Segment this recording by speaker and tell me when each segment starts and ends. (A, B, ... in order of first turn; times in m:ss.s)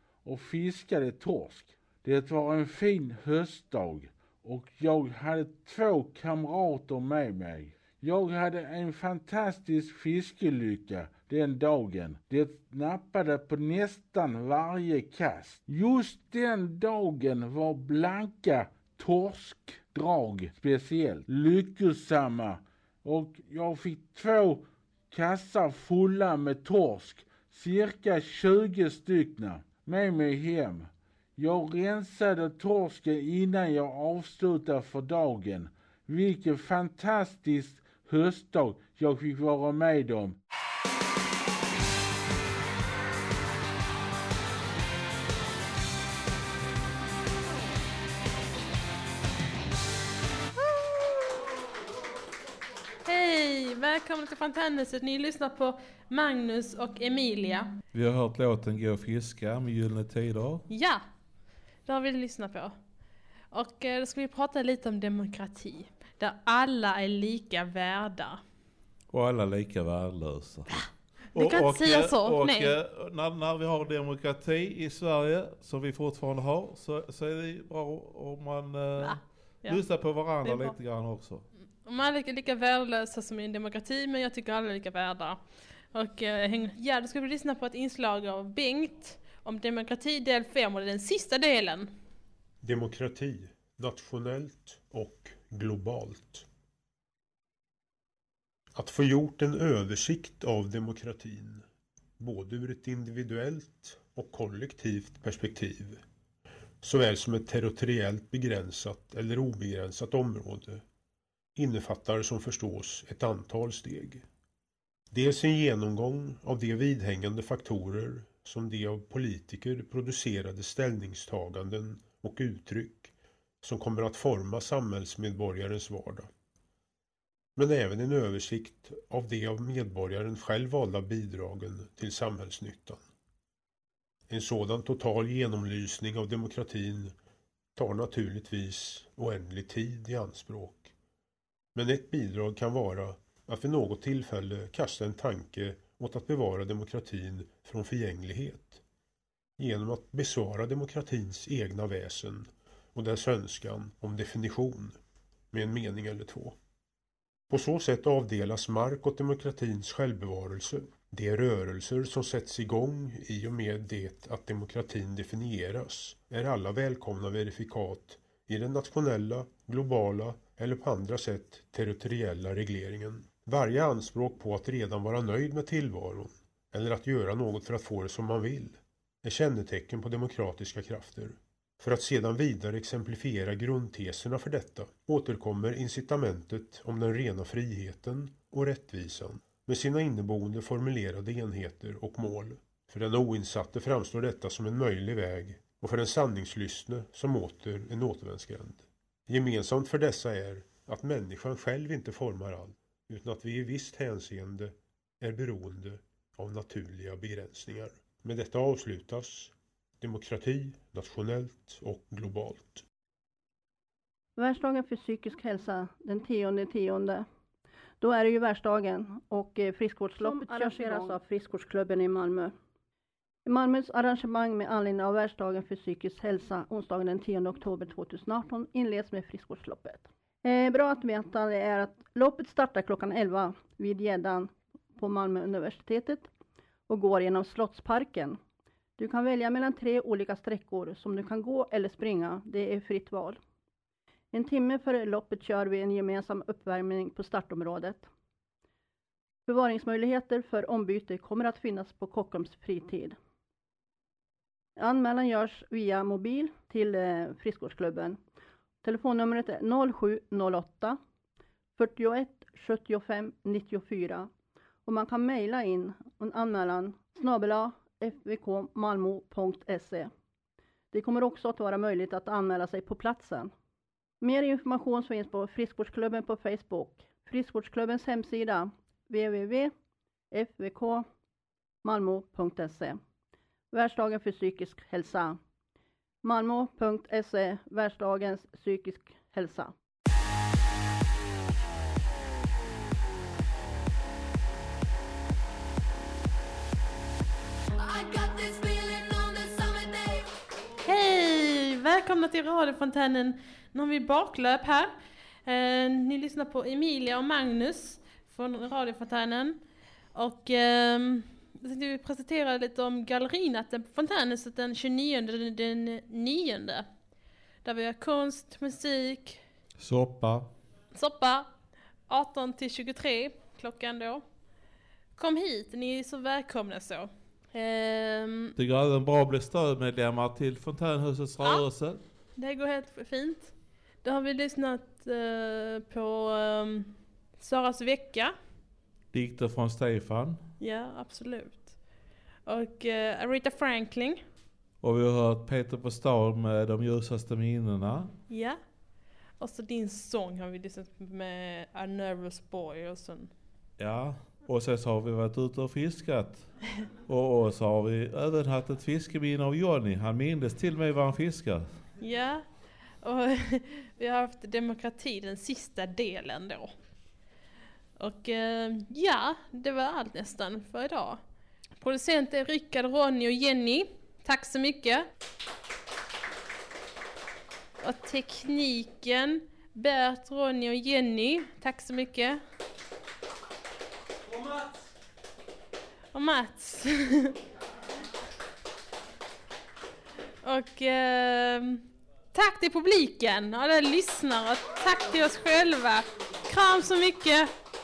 0:00.2-0:40.4 A
0:50.8-0:51.0 B
0:53.0-0:57.8 B
0:57.9-1:00.7 C
1:00.7-1:01.0 B
1:01.8-1:02.8 B
1:03.5-1:08.4 B
1:09.1-1:21.4 C
1:11.4-1:12.7 B
1:19.0-1:20.8 B
1:21.6-1:32.0 B
1:32.6-1:36.5 D
1:38.7-1:41.6 D
1:42.2-1:46.0 D
1:46.8-1:50.8 D
1:51.6-1:54.2 D
1:55.1-2:06.3 D
2:07.6-2:13.0 D
2:14.3-2:17.1 D
2:17.8-2:20.9 D
2:21.8-2:28.8 D
2:29.6-2:35.0 D
2:35.5-2:36.6 D
2:37.5-3:32.8 D
3:34.4-3:37.3 E
3:38.0-3:42.5 E
3:43.4-3:56.3 E
3:56.9-3:58.4 E
3:59.0-4:03.4 E
4:04.3-4:08.1 E
4:09.5-4:13.2 E
4:14.8-4:18.2 E
4:18.8-4:21.0 E
4:21.8-4:24.3 E
4:24.9-4:30.1 E
4:30.9-4:33.5 E
4:34.2-4:39.7 E
4:40.3-4:41.1 E
4:41.8-4:43.0 E
4:43.7-4:45.4 E
4:46.2-4:49.7 E
4:58.1-4:59.8 B
5:00.8-5:09.6 B
5:10.1-5:16.9 B
5:17.6-5:19.4 B
5:19.8-5:20.5 C
5:20.9-5:21.5 B
5:22.1-5:24.2 B
5:25.2-5:28.5 B
5:28.6-5:32.0 C
5:32.4-5:38.3 B
5:39.1-5:40.4 C
5:40.6-5:41.8 B
5:42.5-5:44.2 B
5:44.8-5:48.2 C
5:48.3-5:48.6 B
5:49.4-5:53.3 B
5:53.8-6:01.8 C
6:02.0-6:06.7 B
6:08.0-6:11.2 B
6:11.8-6:15.1 B
6:17.8-6:22.4 B
6:26.1-6:27.4 B
6:30.4-6:37.5 B